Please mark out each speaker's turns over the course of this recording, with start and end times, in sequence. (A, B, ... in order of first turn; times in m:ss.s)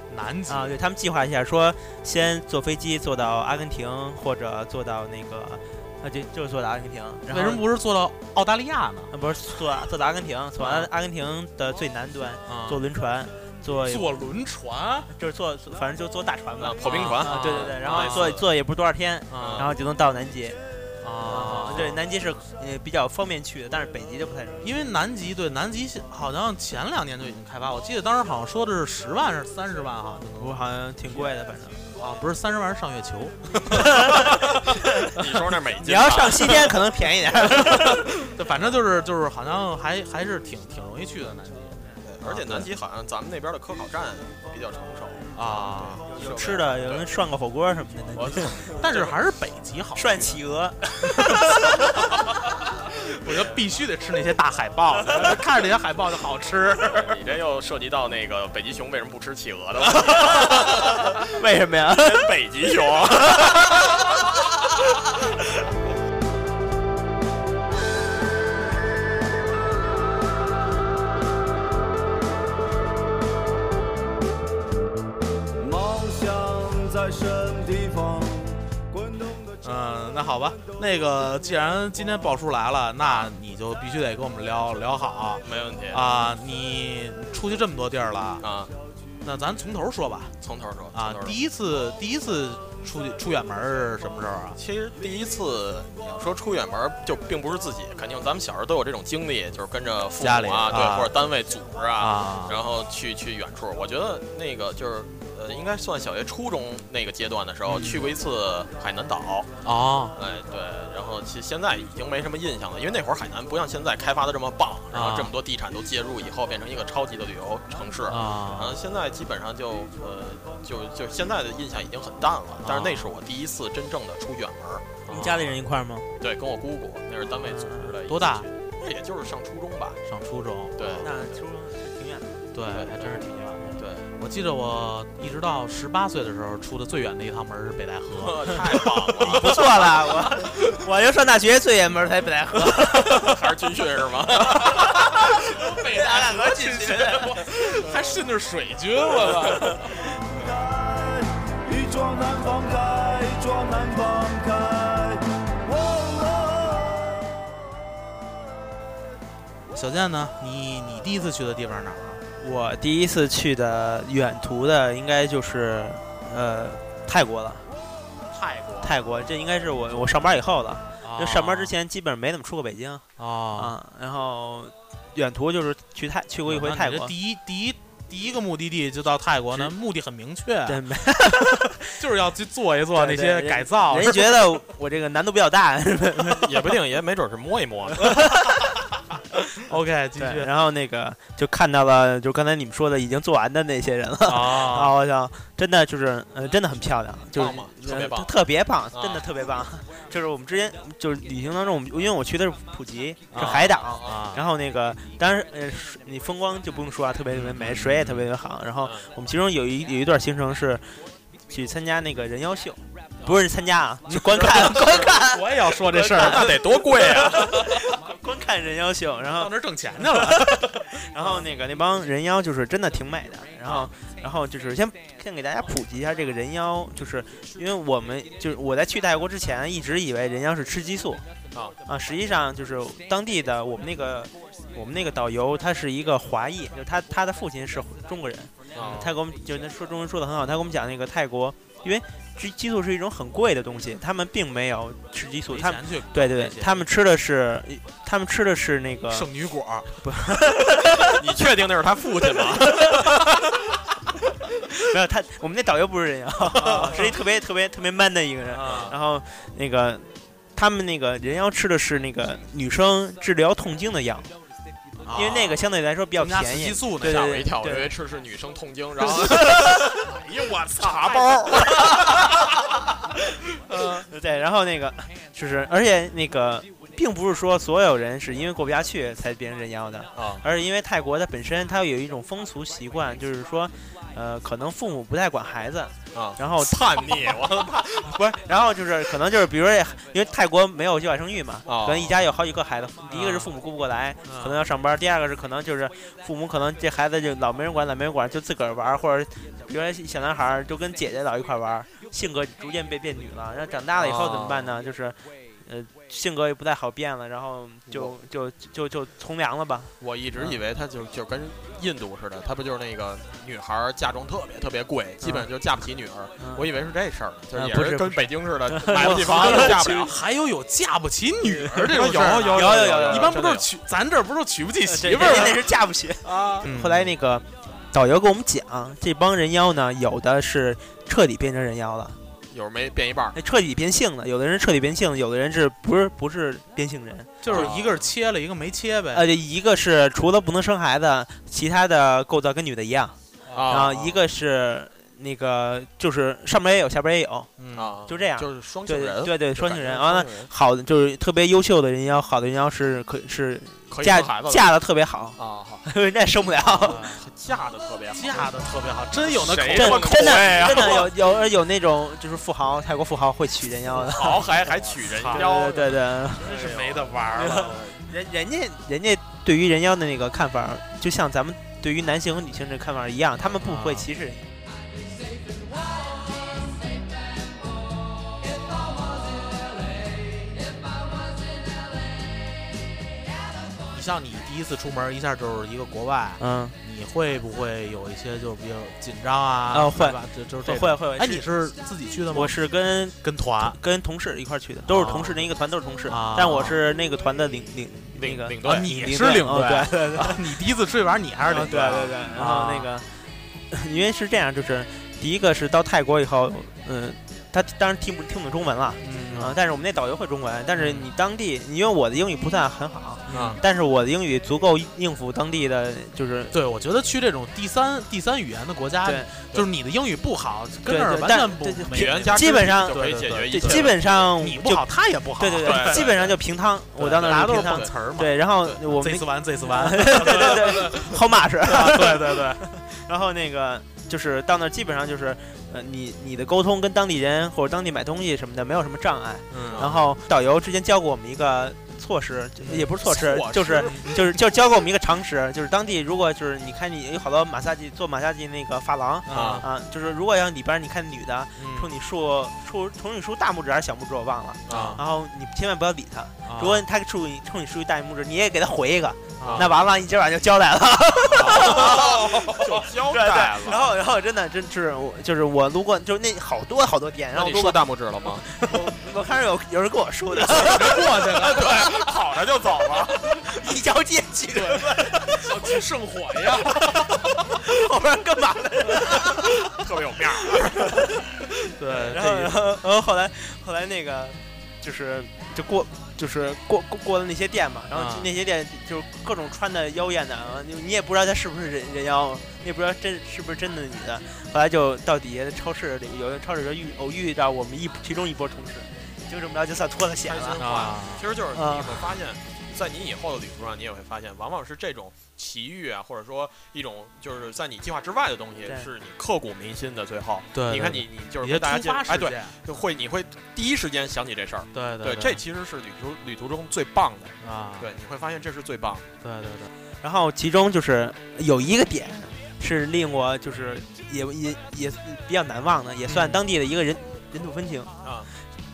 0:00.1-0:00.8 A
0:00.5-0:07.6 B
0:07.3-0:09.1 A
0:09.1-0:14.1 B
0:10.6-0:10.9 A
0:12.5-0:12.8 A
0:13.8-0:15.1 A
0:15.1-0:20.6 B
0:16.6-0:18.5 C
0:16.8-0:18.3 A
0:19.3-0:19.7 A
0:19.4-0:19.7 C
0:21.0-0:21.9 A
0:21.3-0:24.8 B
0:21.3-0:22.0 C
0:24.6-0:30.6 A
0:30.4-0:31.8 B
0:32.0-0:34.5 A
0:33.7-0:35.0 B
0:35.1-0:36.7 C
0:35.8-0:38.3 B
0:37.8-0:41.8 A
0:42.0-0:47.1 C
0:42.2-0:42.7 B
0:45.3-0:46.0 A
0:46.0-0:48.7 B
0:48.2-0:49.2 C
0:48.8-0:50.4 A
0:50.0-0:51.9 B
0:51.1-0:51.5 A
0:52.8-0:57.1 A
0:56.9-1:01.3 C
0:59.9-1:02.3 B
1:01.9-1:04.1 C
1:03.2-1:04.0 B
1:15.7-1:19.1 D
1:19.6-1:28.4 A
1:23.0-1:23.3 C
1:25.4-1:26.1 C
1:28.4-1:28.7 C
1:29.2-1:30.3 A
1:30.4-1:31.4 C
1:30.9-1:34.6 A
1:34.6-1:49.5 C
1:40.2-1:41.1 A
1:42.0-1:42.6 A
1:47.7-1:48.1 A
1:49.6-1:50.2 A
1:50.2-2:05.1 C
1:54.9-1:55.3 A
1:58.1-1:58.8 A
2:02.6-2:03.1 A
2:05.1-2:05.6 A
2:05.1-2:06.1 B
2:06.2-2:10.0 C
2:07.4-2:07.9 B
2:08.0-2:08.4 A
2:10.0-2:11.0 A
2:10.8-2:11.2 C
2:11.0-2:12.8 B
2:12.5-2:19.9 A
2:13.8-2:14.1 C
2:18.2-2:19.8 C
2:19.2-2:23.4 B
2:23.1-2:25.0 C
2:24.4-2:27.5 B
2:24.5-2:30.0 A
2:27.8-2:28.1 C
2:29.2-2:29.7 C
2:31.7-2:35.2 D
2:35.7-2:36.5 D
2:39.7-2:42.2 A
2:42.4-2:47.6 B
2:48.3-2:48.9 A
2:48.8-2:57.1 B
2:51.0-2:51.7 A
2:53.2-2:53.7 A
2:56.4-3:00.8 A
3:00.6-3:01.9 B
3:02.0-3:04.3 A
3:02.9-3:06.7 B
3:06.3-3:08.3 C
3:08.0-3:08.6 B
3:09.6-3:10.5 A
3:10.2-3:31.0 B
3:14.2-3:14.9 A
3:17.3-3:18.3 C
3:18.9-3:19.3 C
3:23.3-3:24.5 A
3:23.4-3:24.3 C
3:27.3-3:28.3 A
3:31.5-3:51.2 B
3:34.1-3:36.5 A
3:36.1-3:37.6 C
3:39.4-3:41.4 A
3:51.8-4:09.3 B
3:58.7-3:59.1 C
3:58.8-3:59.1 A
4:05.5-4:06.9 A
4:09.1-4:10.0 A
4:10.0-4:11.2 B
4:11.1-4:13.4 C
4:12.6-4:13.1 B
4:14.8-4:24.3 B
4:16.5-4:17.1 A
4:18.5-4:18.9 A
4:18.6-4:18.9 C
4:25.0-4:25.6 A
4:25.1-4:27.9 B
4:26.2-4:27.4 A
4:27.0-4:32.4 C
4:29.0-4:29.8 B
4:30.5-4:31.2 A
4:31.6-4:32.4 B
4:33.7-4:34.0 A
4:33.8-5:10.6 B
4:40.1-4:40.4 C
4:46.1-4:48.1 C
4:51.7-4:52.2 C
4:53.1-4:53.5 A
4:54.2-4:54.6 A
5:04.0-5:04.7 C
5:10.0-5:20.1 C
5:16.4-5:16.7 B
5:17.5-5:20.1 B
5:18.9-5:25.7 A
5:21.7-5:23.6 C
5:22.5-5:23.6 B
5:24.8-5:32.2 B
5:26.2-5:26.6 C
5:26.6-5:27.1 A
5:32.5-5:33.4 C
5:33.3-5:37.9 B
5:37.4-5:39.2 A
5:37.5-5:37.8 C
5:39.1-5:47.5 B
5:43.4-5:43.8 A
5:43.5-5:44.2 C
5:47.6-5:47.9 A
5:47.7-5:50.5 C
5:48.0-5:57.0 B
5:53.9-5:54.7 C
5:55.4-5:55.8 C
5:56.7-5:58.5 C
5:56.8-5:57.2 A
5:58.1-6:00.7 A
5:59.3-6:01.1 C
5:59.7-6:04.5 B
6:03.9-6:07.6 C
6:05.0-6:05.8 A
6:05.3-6:06.6 B
6:06.4-6:07.9 A
6:07.3-6:14.6 B
6:13.6-6:14.1 A
6:23.9-6:32.6 A
6:26.4-6:26.8 B
6:29.7-6:31.5 B
6:32.3-6:40.6 B
6:33.2-6:33.8 A
6:34.9-6:35.5 A
6:36.1-6:36.8 A
6:38.2-6:38.9 C
6:38.6-6:42.9 A
6:41.5-6:43.1 B
6:43.7-6:56.6 B
6:49.0-6:49.5 A
6:50.8-6:51.1 A
6:53.3-6:53.6 A
6:53.3-6:53.6 C
6:56.5-7:06.1 A
6:59.0-6:59.3 B
7:00.9-7:47.8 B
7:01.9-7:04.2 C
7:05.6-7:06.4 C
7:07.0-7:11.0 A
7:07.1-7:08.0 C
7:11.7-7:12.6 A
7:19.5-7:20.0 A
7:19.7-7:20.0 C
7:22.6-7:22.9 A
7:23.0-7:24.2 C
7:23.7-7:24.1 A
7:29.3-7:29.6 A
7:29.3-7:29.6 C
7:31.6-7:31.9 A
7:34.7-7:35.0 C
7:34.7-7:35.0 A
7:36.4-7:36.8 A
7:39.4-7:39.7 A
7:39.4-7:39.7 C
7:41.3-7:43.9 C
7:41.6-7:41.9 A
7:47.3-7:48.4 C
7:48.3-7:52.1 B
7:50.3-7:51.8 A
7:50.5-7:53.4 C
7:53.0-7:55.5 B
7:54.5-7:57.1 A
7:56.7-7:59.6 B
7:59.6-8:01.1 C
8:00.4-8:20.9 B
8:01.8-8:02.6 A
8:07.9-8:08.3 A
8:20.2-8:39.1 C
8:20.6-8:21.2 A
8:21.5-8:22.1 B
8:30.5-8:32.6 A
8:34.7-8:35.4 A
8:37.4-8:37.9 A
8:39.2-8:39.7 A
8:40.0-8:47.9 B
8:46.1-8:46.4 A
8:48.0-8:48.3 C